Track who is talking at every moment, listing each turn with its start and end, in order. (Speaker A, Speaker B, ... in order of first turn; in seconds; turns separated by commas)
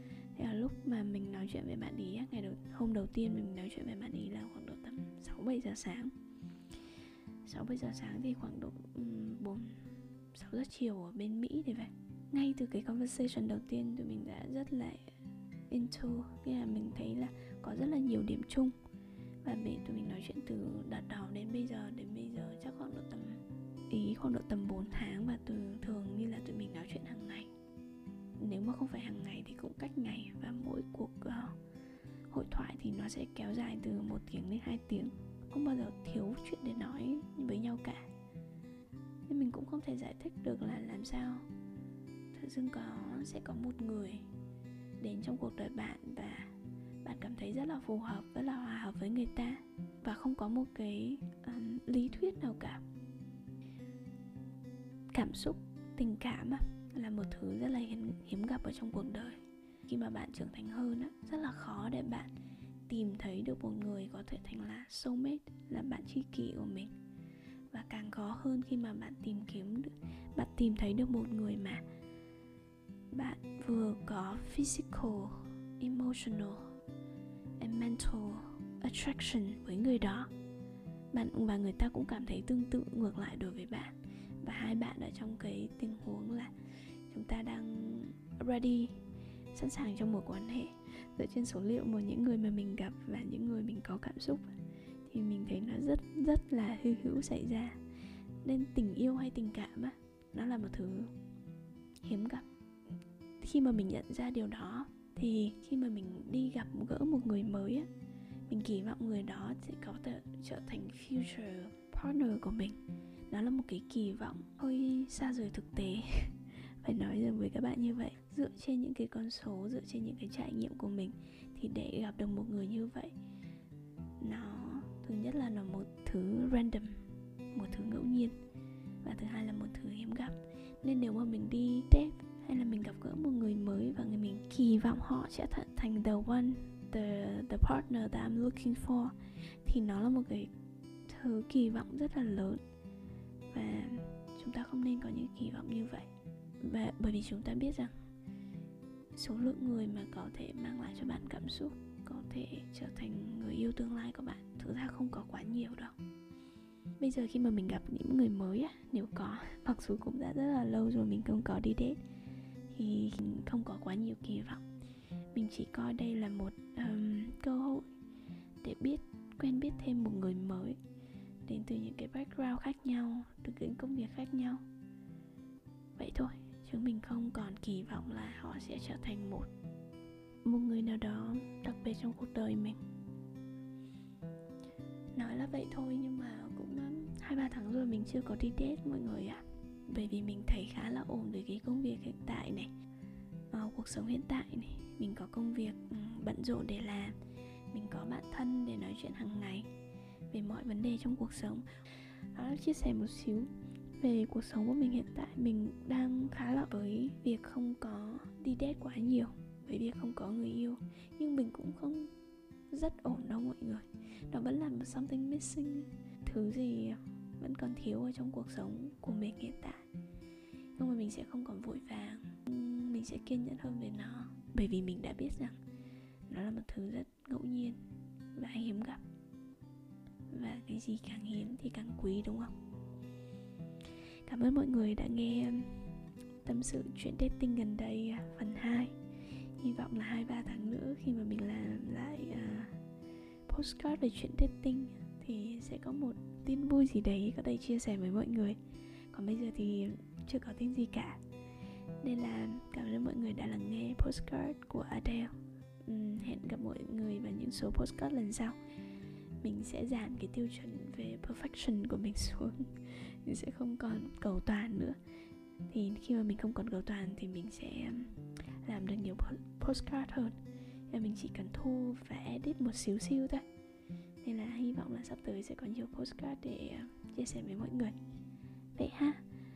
Speaker A: 0.3-6.1, Speaker A: 7.4-9.8, Speaker A: 10.3-15.1, Speaker A: 15.7-18.8, Speaker A: 19.4-27.5, Speaker A: 28.4-31.6, Speaker A: 32.3-38.0, Speaker A: 39.3-41.5, Speaker A: 42.3-44.2, Speaker A: 45.0-46.5, Speaker A: 47.0-52.8, Speaker A: 55.1-62.3, Speaker A: 62.9-66.9, Speaker A: 67.7-71.8, Speaker A: 73.1-76.7, Speaker A: 77.6-80.3, Speaker A: 81.1-83.9, Speaker A: 84.4-86.5, Speaker A: 87.1-89.0, Speaker A: 89.5-94.5, Speaker A: 95.1-97.8, Speaker A: 98.4-101.1, Speaker A: 102.0-102.5, Speaker A: 103.4-107.9, Speaker A: 108.5-112.8, Speaker A: 113.3-123.1, Speaker A: 124.2-127.0, Speaker A: 127.5-128.4, Speaker A: 129.0-140.5, Speaker A: 141.1-142.6, Speaker A: 143.5-147.9, Speaker A: 149.2-155.9, Speaker A: 157.0-162.0, Speaker A: 162.7-164.6, Speaker A: 165.3-167.9, Speaker A: 168.6-170.8, Speaker A: 171.5-174.6, Speaker A: 176.0-179.5, Speaker A: 180.4-182.8, Speaker A: 185.1-192.7, Speaker A: 193.5-197.2, Speaker A: 197.7-199.7, Speaker A: 200.3-201.6, Speaker A: 202.3-212.1, Speaker A: 212.7-219.8, Speaker A: 220.8-225.6, Speaker A: 226.3-227.8, Speaker A: 228.3-229.0, Speaker A: 230.3-232.5, Speaker A: 234.2-235.7, Speaker A: 236.4-238.9, Speaker A: 239.6-242.7, Speaker A: 243.5-248.6, Speaker A: 249.1-251.2, Speaker A: 252.0-255.3, Speaker A: 255.8-258.6, Speaker A: 259.4-265.0, Speaker A: 265.7-270.4, Speaker A: 270.9-273.4, Speaker A: 274.2-278.0, Speaker A: 278.8-279.2